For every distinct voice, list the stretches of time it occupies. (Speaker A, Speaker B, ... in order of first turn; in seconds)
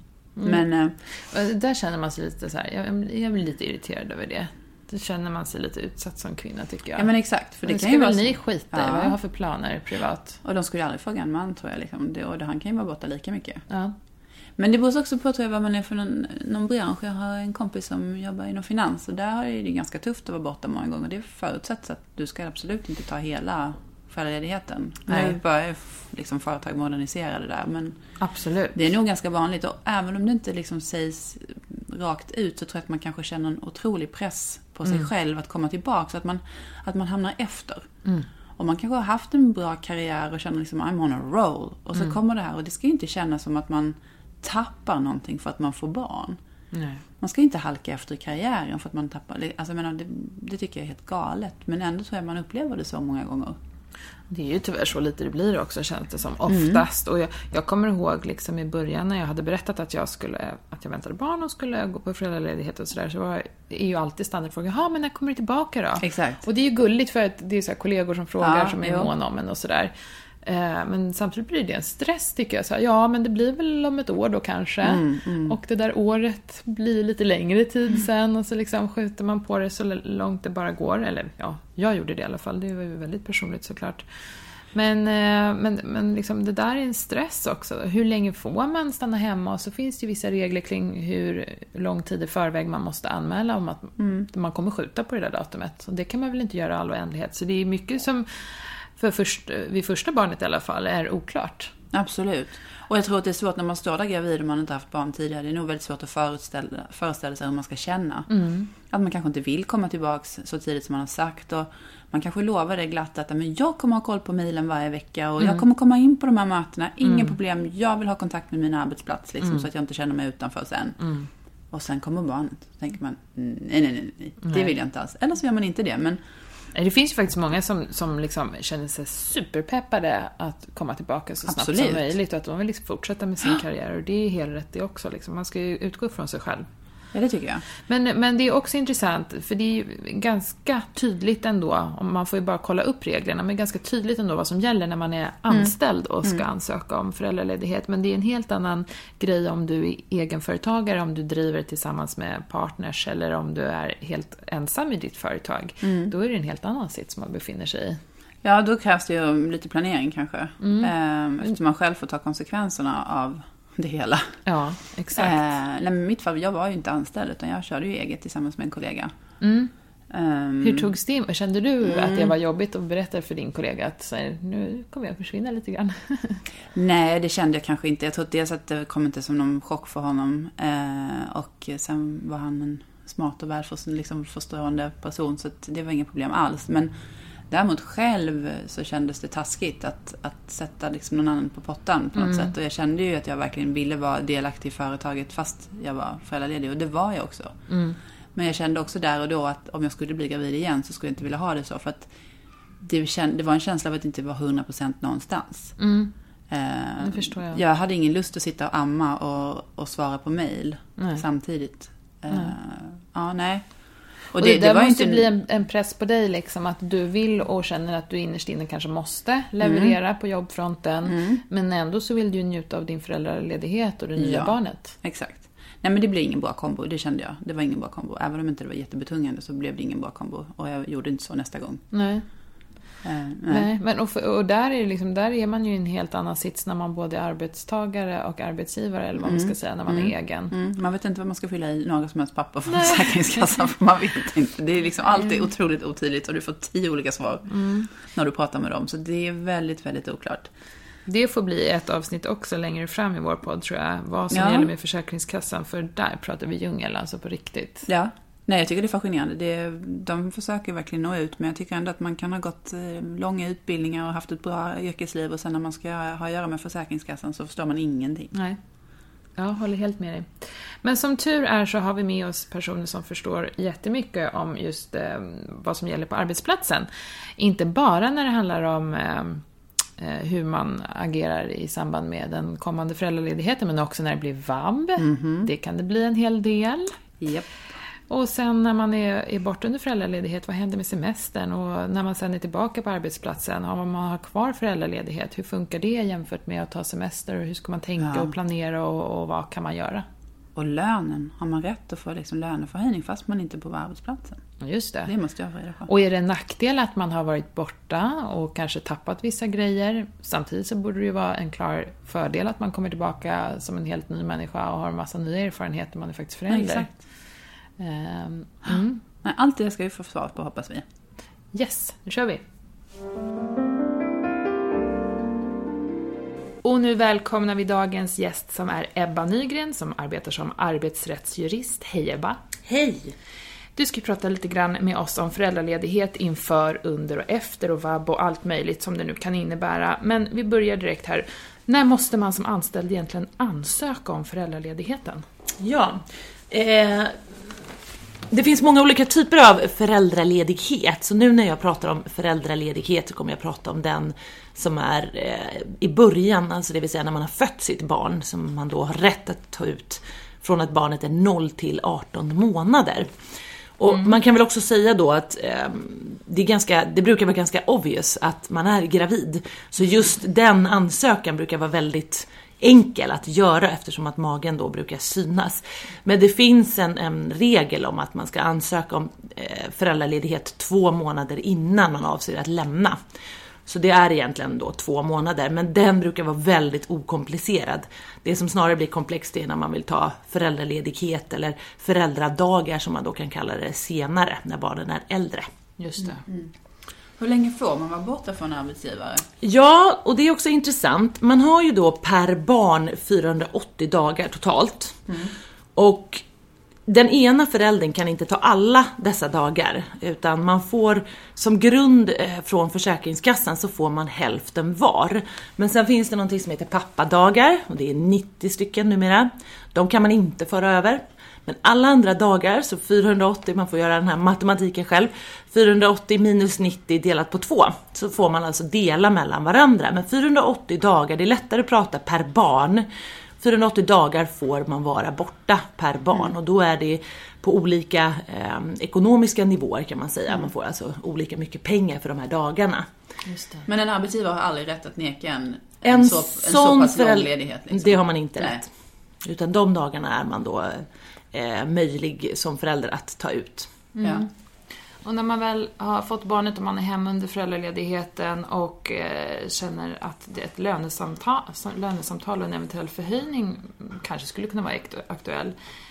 Speaker A: 0.4-7.1, 7.6-10.4, 13.7-13.9, 25.1-25.4, 28.2-28.8, 46.7-47.0, 54.3-84.1, 84.7-101.7, 108.3-108.7, 117.0-117.3, 121.0-121.3, 124.4-124.7, 126.7-136.7, 137.8-158.0, 160.6-160.9, 164.5-165.4, 169.4-169.7, 170.6-176.4, 192.2-192.5, 197.7-198.0, 205.8-206.1, 207.0-207.6, 211.0-211.2, 214.4-224.9, 231.9-232.3, 233.5-240.5, 242.7-243.3, 247.5-247.9, 251.1-257.9, 268.3-268.6, 269.4-279.4, 280.0-287.0, 288.1-300.1, 304.6-305.1, 305.9-316.9, 317.8-319.0, 321.5-322.4, 326.6-332.4, 333.8-345.2, 395.8-396.2, 443.3-443.7, 453.9-454.3, 455.0-465.6
Speaker B: 0.4-1.0, 7.0-9.2, 10.4-13.7, 14.6-28.0, 28.7-37.9, 38.6-46.4, 47.2-53.6, 56.5-56.8, 66.0-66.4, 68.4-69.1, 74.8-75.6, 94.0-94.3, 101.9-121.0, 121.7-126.2, 131.5-132.1, 137.1-137.7, 145.5-146.4, 155.8-156.1, 158.4-164.4, 165.2-169.1, 170.1-170.9, 171.8-172.3, 176.7-186.9, 187.5-197.7, 198.3-202.1, 202.8-205.8, 206.5-215.3, 219.6-219.9, 221.1-221.4, 224.2-231.8, 233.0-233.7, 239.2-250.5, 254.3-254.7, 257.9-268.3, 285.0-285.5, 287.2-287.5, 298.0-298.3, 300.6-304.4, 305.1-305.9, 316.5-316.9, 319.2-320.8, 396.2-396.5, 397.2-399.3, 443.7-448.6
Speaker C: 332.7-333.1, 345.6-347.2, 348.3-363.1, 363.8-383.0, 383.7-395.5, 399.4-405.1, 405.8-406.2, 406.9-432.9, 433.4-442.9, 445.8-448.7, 449.2-453.8